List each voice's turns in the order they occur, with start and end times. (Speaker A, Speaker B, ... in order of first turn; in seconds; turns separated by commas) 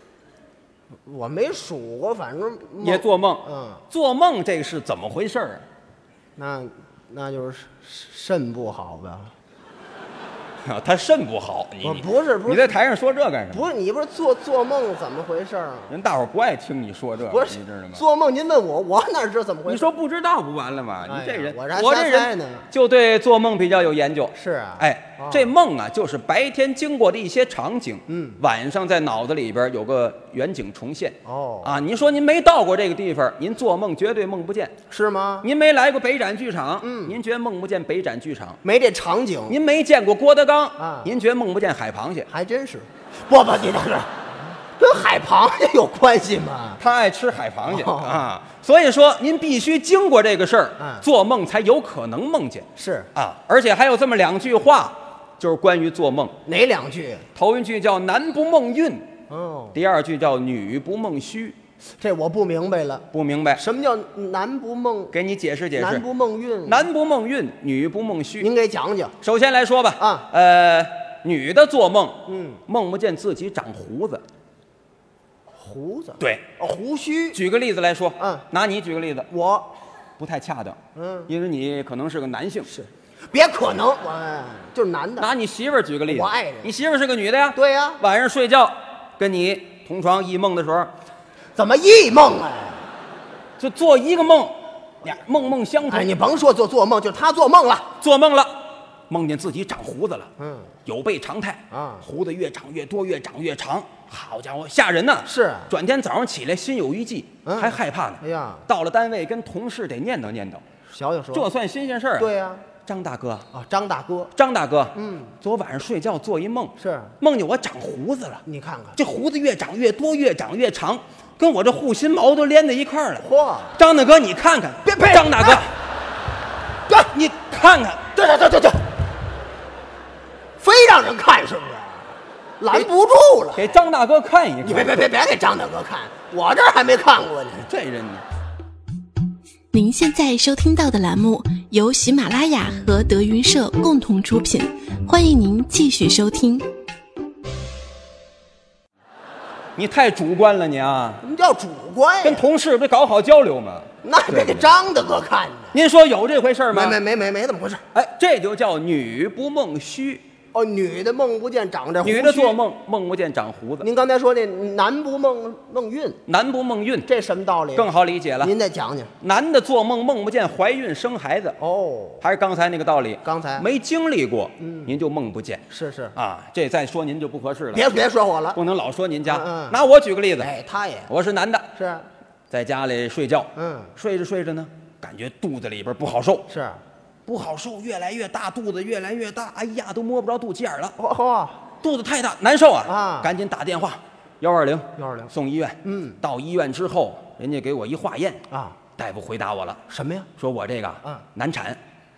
Speaker A: 1.1-3.8, Speaker B: 2.8-5.6, Speaker A: 6.4-9.3, Speaker B: 10.6-13.7, Speaker A: 11.8-12.7, Speaker A: 13.5-15.9, Speaker B: 15.9-18.0, Speaker A: 17.2-19.9, Speaker B: 19.6-34.8, Speaker A: 21.1-22.7, Speaker A: 24.3-25.5, Speaker A: 28.1-28.4, Speaker A: 31.2-31.8, Speaker A: 34.9-35.5, Speaker B: 35.4-38.6, Speaker A: 36.8-37.2, Speaker A: 38.6-39.6, Speaker B: 39.5-42.3, Speaker A: 40.8-41.1, Speaker A: 42.3-44.2, Speaker A: 44.8-46.8, Speaker B: 46.8-56.4, Speaker A: 47.7-48.2, Speaker A: 50.8-51.0, Speaker A: 52.8-53.1, Speaker A: 56.5-57.2, Speaker B: 57.3-59.1, Speaker A: 59.3-59.8, Speaker B: 59.7-61.6, Speaker A: 62.0-65.1, Speaker B: 63.1-63.6, Speaker B: 65.1-66.0, Speaker A: 65.8-66.8, Speaker B: 66.7-68.5, Speaker A: 68.4-69.2, Speaker B: 69.2-74.2, Speaker A: 70.0-70.3, Speaker A: 72.3-72.6, Speaker A: 75.6-77.4, Speaker B: 77.3-79.3, Speaker A: 78.2-78.4, Speaker A: 79.3-79.7, Speaker B: 80.2-82.7, Speaker A: 80.9-81.3, Speaker A: 82.7-85.3, Speaker B: 85.2-90.9, Speaker A: 86.1-86.7, Speaker A: 87.5-88.0, Speaker A: 91.5-92.9, Speaker B: 93.6-96.1, Speaker A: 95.9-97.9, Speaker B: 98.0-100.3, Speaker A: 100.4-100.7, Speaker B: 100.8-110.6, Speaker A: 101.7-102.0, Speaker A: 105.2-105.7, Speaker A: 107.4-108.7, Speaker A: 110.9-111.5, Speaker B: 111.3-112.3, Speaker A: 112.2-112.7, Speaker B: 112.8-113.5, Speaker A: 113.5-114.3, Speaker B: 114.3-118.4, Speaker A: 114.9-115.3, Speaker A: 116.8-117.1, Speaker A: 118.5-119.0, Speaker B: 119.0-123.2, Speaker A: 123.2-123.8, Speaker B: 123.8-125.7, Speaker A: 124.8-125.6, Speaker B: 126.9-128.1, Speaker A: 128.1-128.8, Speaker A: 130.6-133.7, Speaker B: 133.5-135.0, Speaker A: 134.6-137.7, Speaker B: 137.7-138.2, Speaker C: 139.7-146.7, Speaker B: 149.8-151.2, Speaker A: 151.2-152.4, Speaker B: 152.2-154.7, Speaker A: 154.0-155.7, Speaker B: 155.7-157.0, Speaker A: 156.7-157.8, Speaker B: 157.9-160.2, Speaker A: 160.5-162.6, Speaker B: 162.0-163.9, Speaker A: 163.8-166.2, Speaker B: 166.3-167.1, Speaker A: 167.1-167.9, Speaker B: 167.7-168.5, Speaker A: 168.4-169.1, Speaker B: 169.2-171.6, Speaker A: 171.6-172.2, Speaker B: 172.2-177.9, Speaker A: 173.2-173.7, Speaker A: 174.6-174.9, Speaker A: 175.7-176.1, Speaker A: 177.7-178.6, Speaker B: 178.5-180.5, Speaker A: 179.2-179.8, Speaker A: 180.4-181.1, Speaker B: 181.1-181.7, Speaker A: 181.7-182.1, Speaker B: 182.5-186.5, Speaker A: 183.6-183.9, Speaker A: 186.5-186.8, Speaker B: 187.2-190.9, Speaker A: 191.0-191.6, Speaker B: 191.8-198.4, Speaker A: 192.8-193.3, Speaker A: 195.0-195.3, Speaker A: 195.8-196.2, Speaker A: 198.5-198.8, Speaker B: 198.9-199.8, Speaker A: 199.9-200.3, Speaker B: 200.4-201.8